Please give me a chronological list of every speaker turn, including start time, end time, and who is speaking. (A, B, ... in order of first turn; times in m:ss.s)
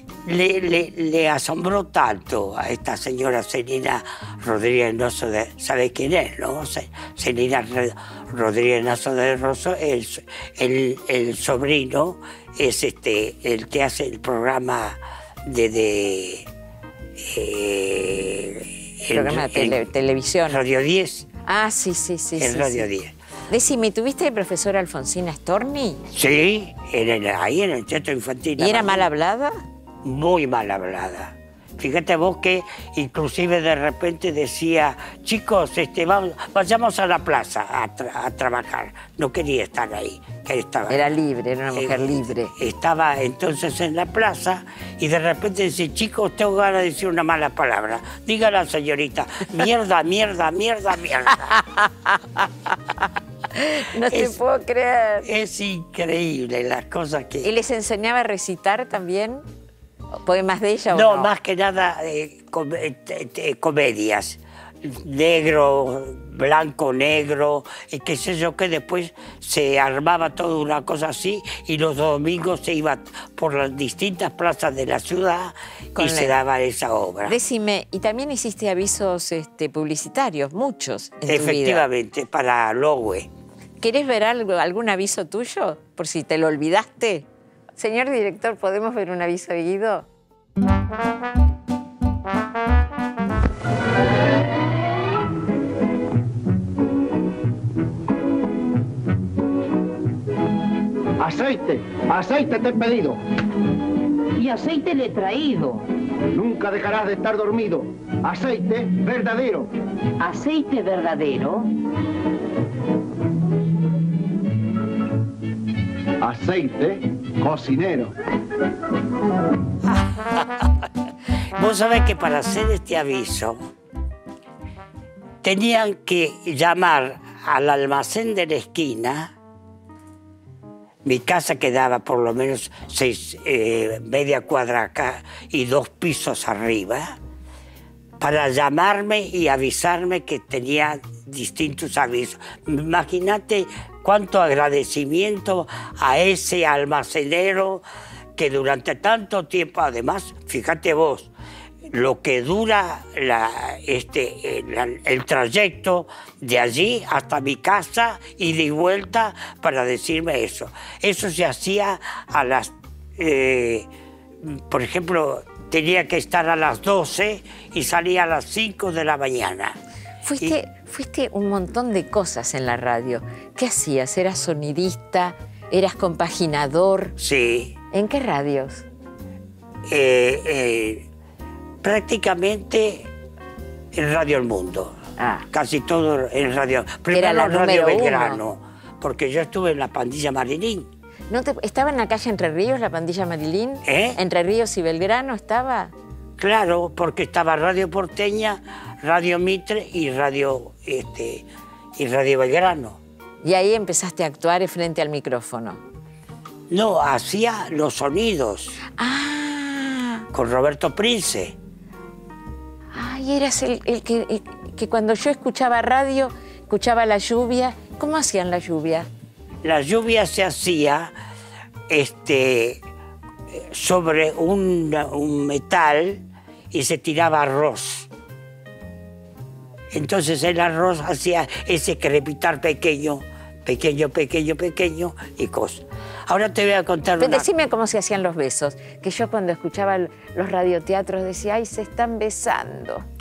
0:00.2-0:16.5 A
0:17.2-0:19.8 A
0:19.1-0:20.6 B
0:20.5-0:21.3 A
0:21.5-0:22.9 B
0:22.4-0:23.2 A
0:23.5-0:26.0 B
0:26.1-0:29.1 A
0:28.6-0:29.5 B
0:30.0-0:41.0 A
0:40.9-0:42.5 B
0:41.7-0:51.5 A
0:51.4-0:52.7 B
0:53.5-0:55.3 B
0:54.1-0:54.4 A
0:55.2-0:57.5 A
0:57.4-0:59.4 B
1:00.2-1:01.3 B
1:00.9-1:17.4 A
1:16.0-1:16.3 B
1:17.3-1:21.8 B
1:21.3-1:23.3 A
1:23.8-1:27.3 B
1:27.8-1:30.1 B
1:41.2-1:43.2 C
1:44.4-1:45.8 D
1:46.3-1:49.7 C
1:50.2-1:51.7 D
1:56.2-1:58.1 C
2:00.1-2:00.7 A
2:01.6-2:03.6 A
2:05.4-2:09.3 A
2:11.0-2:17.2 A
2:18.2-2:27.8 A
2:28.4-2:31.3 A
2:31.9-2:43.9 A
2:44.4-2:49.8 A
2:50.2-2:57.2 B
2:57.2-2:57.7 A
2:57.9-2:58.8 B
2:59.9-3:01.1 A
3:01.8-3:03.1 A
3:03.9-3:05.0 A
3:05.2-3:05.5 B
3:05.5-3:10.9 A
3:07.1-3:08.4 B
3:11.3-3:15.9 B
3:13.8-3:14.2 A
3:16.4-3:23.0 A
3:23.4-3:25.8 B
3:26.7-3:28.8 A
3:29.0-3:30.3 B
3:30.3-3:31.6 A
3:32.9-3:39.1 B
3:39.6-3:41.1 A
3:41.9-3:42.8 A
3:43.5-3:48.1 A
3:49.9-3:57.5 A
3:57.2-4:03.0 B